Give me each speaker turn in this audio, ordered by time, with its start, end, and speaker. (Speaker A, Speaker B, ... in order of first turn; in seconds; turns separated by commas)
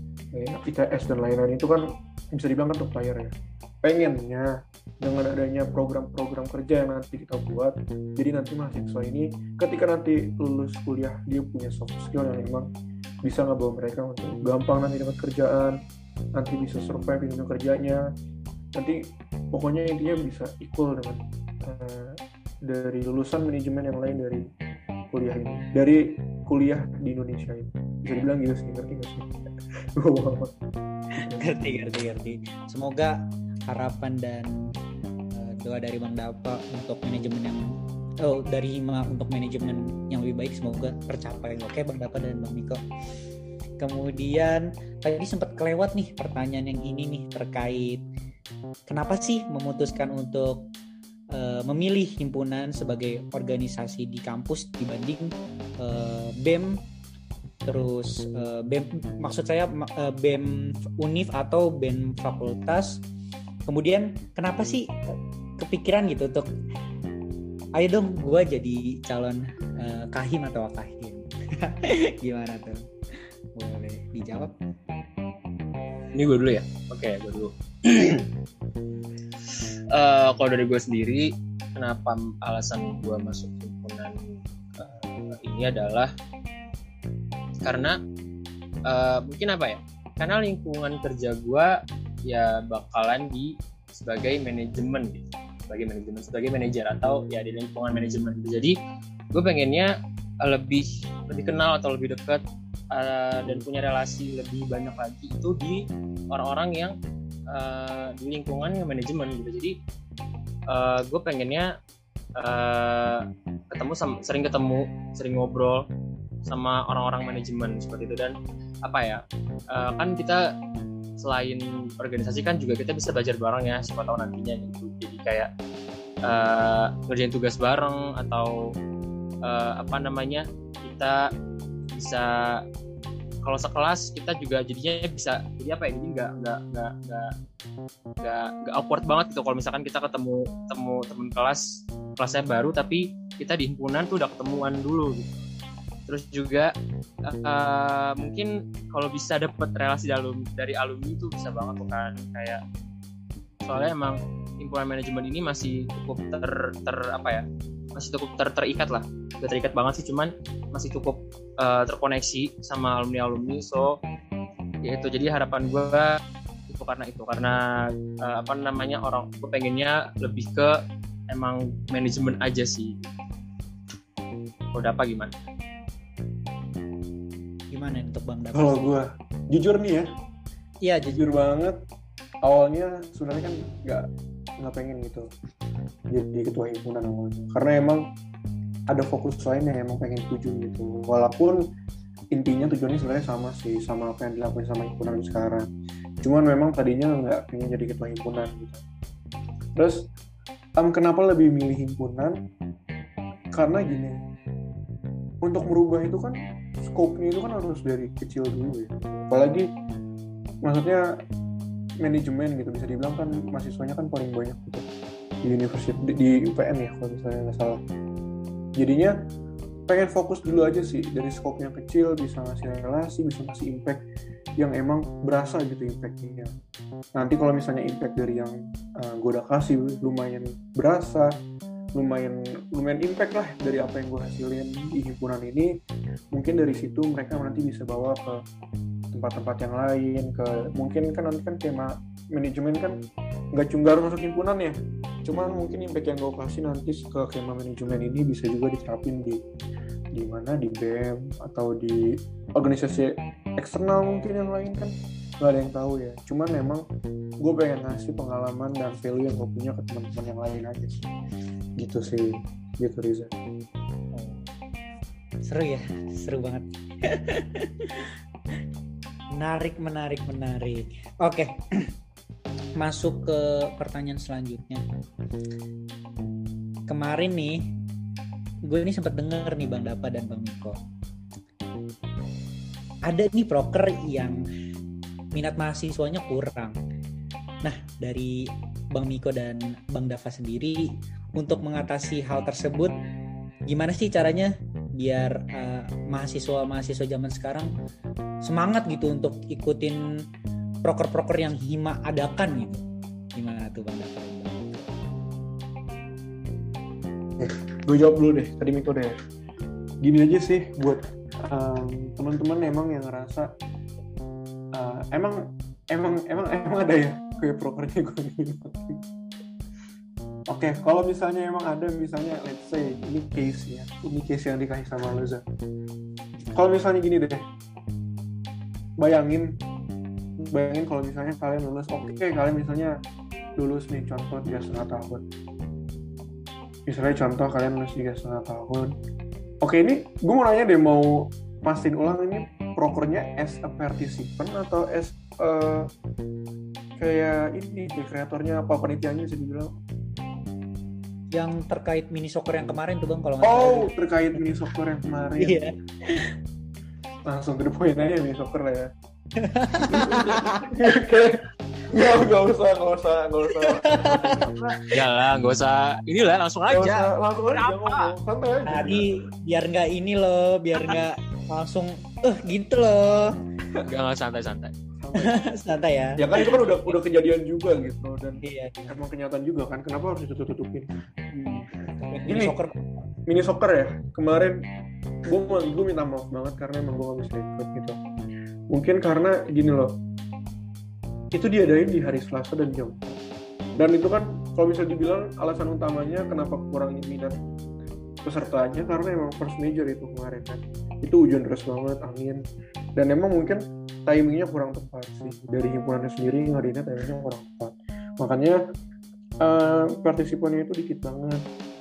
Speaker A: 0.3-12.7, Speaker A: 13.2-15.8, Speaker A: 16.4-18.0, Speaker A: 18.7-24.5, Speaker A: 25.1-29.3, Speaker A: 29.9-30.5, Speaker A: 31.2-31.5, Speaker B: 31.3-33.2, Speaker B: 33.7-34.5, Speaker B: 35.3-37.6, Speaker B: 38.2-42.8, Speaker B: 43.8-48.0, Speaker B: 48.9-50.6, Speaker B: 51.3-55.3, Speaker B: 55.8-56.7, Speaker B: 57.6-63.0, Speaker B: 63.7-64.8, Speaker B: 65.6-66.5, Speaker B: 67.8-72.8, Speaker B: 73.5-74.5, Speaker C: 76.2-78.3, Speaker C: 79.9-86.1, Speaker C: 87.6-88.0, Speaker C: 88.9-91.7, Speaker C: 92.2-98.8, Speaker C: 99.3-107.0, Speaker C: 107.5-109.8, Speaker C: 110.7-111.7, Speaker C: 112.4-115.9, Speaker C: 116.5-120.4, Speaker C: 121.2-125.5, Speaker C: 126.2-128.6, Speaker C: 129.4-131.3, Speaker C: 131.9-132.6, Speaker C: 133.4-137.3, Speaker C: 138.2-141.6, Speaker C: 142.2-145.4, Speaker C: 146.1-146.7, Speaker C: 147.2-152.6, Speaker C: 153.6-157.4, Speaker C: 157.9-164.0, Speaker C: 164.8-166.1, Speaker C: 166.7-170.8, Speaker C: 171.3-173.1, Speaker C: 174.7-175.3, Speaker B: 177.7-178.9, Speaker A: 178.5-180.1, Speaker B: 180.8-181.2, Speaker A: 181.1-181.8, Speaker A: 182.4-185.3, Speaker A: 186.1-188.0, Speaker A: 188.9-191.6, Speaker A: 192.3-195.7, Speaker A: 196.2-198.8, Speaker A: 199.8-200.1, Speaker A: 200.8-202.4, Speaker A: 203.5-204.2, Speaker A: 205.4-209.7, Speaker A: 210.6-211.1, Speaker A: 212.0-214.8, Speaker A: 215.4-217.8, Speaker A: 218.8-219.2, Speaker A: 219.9-224.0, Speaker A: 224.6-226.5, Speaker A: 227.2-231.3, Speaker A: 231.9-235.7, Speaker A: 236.3-238.4, Speaker A: 239.1-243.0, Speaker A: 243.5-249.4, Speaker A: 250.1-256.8, Speaker A: 257.4-261.1, Speaker A: 261.8-263.3, Speaker B: 264.1-264.4, Speaker B: 265.4-268.1, Speaker B: 269.3-271.8, Speaker B: 272.8-274.8, Speaker B: 276.9-277.7, Speaker B: 278.6-280.8, Speaker B: 283.0-284.4, Speaker B: 285.3-286.7, Speaker B: 287.6-292.9, Speaker B: 293.7-297.7, Speaker B: 298.4-300.0, Speaker B: 300.8-302.8, Speaker B: 303.3-304.9, Speaker A: 307.4-309.1, Speaker A: 310.0-313.5, Speaker A: 314.7-319.0, Speaker A: 320.5-325.4, Speaker A: 326.5-327.4, Speaker A: 329.0-329.6, Speaker A: 330.4-333.0, Speaker A: 333.6-335.2, Speaker A: 336.9-338.9, Speaker A: 339.6-345.9, Speaker A: 347.0-349.7, Speaker B: 351.3-353.9, Speaker A: 353.4-355.7, Speaker B: 355.4-356.3, Speaker A: 357.2-358.9, Speaker B: 359.4-360.7, Speaker A: 359.8-364.7, Speaker B: 363.6-364.9, Speaker C: 364.9-368.1, Speaker A: 366.7-369.1, Speaker B: 368.7-373.3, Speaker C: 373.9-374.7, Speaker A: 375.0-375.4, Speaker B: 375.2-376.9, Speaker A: 376.2-380.9, Speaker B: 378.4-379.0, Speaker B: 381.3-383.0, Speaker A: 382.2-382.6, Speaker A: 383.3-384.6, Speaker A: 385.2-388.0, Speaker A: 388.7-389.9, Speaker A: 391.3-393.2, Speaker A: 393.8-397.3, Speaker A: 398.2-402.4, Speaker A: 403.0-408.6, Speaker A: 409.4-411.4